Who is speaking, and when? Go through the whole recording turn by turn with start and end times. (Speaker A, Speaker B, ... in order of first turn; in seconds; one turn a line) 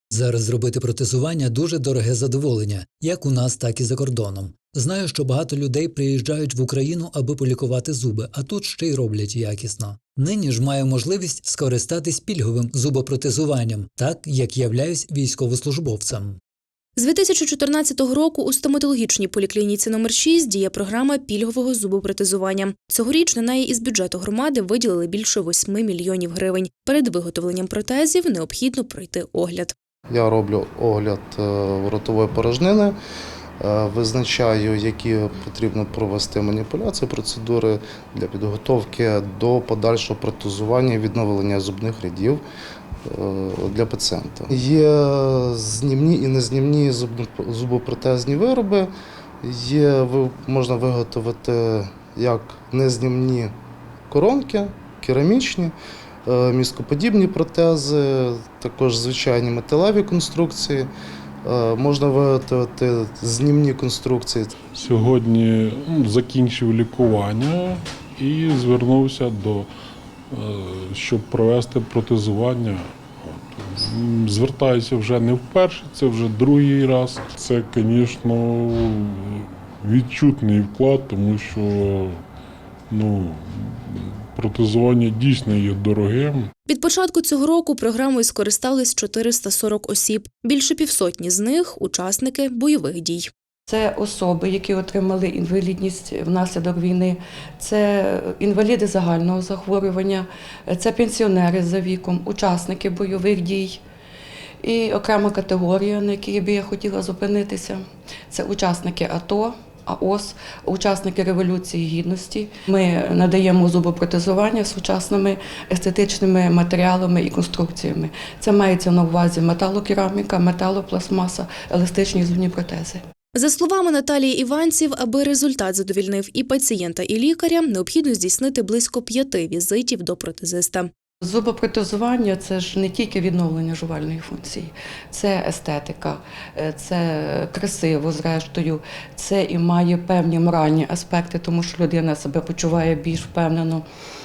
Speaker A: 0.1-16.4
Speaker B: 16.9-29.7
Speaker C: 30.1-33.0
Speaker C: 33.6-42.4
Speaker C: 43.0-48.9
Speaker C: 49.4-53.5
Speaker C: 54.1-55.7
Speaker C: 56.2-60.9
Speaker C: 61.4-64.5
Speaker D: 64.7-69.7
Speaker D: 70.3-82.2
Speaker D: 82.9-86.5
Speaker B: 86.7-93.3
Speaker E: 93.7-103.8
Speaker E: 104.6-123.0
Speaker B: 123.3-130.9
Speaker E: 131.2-143.8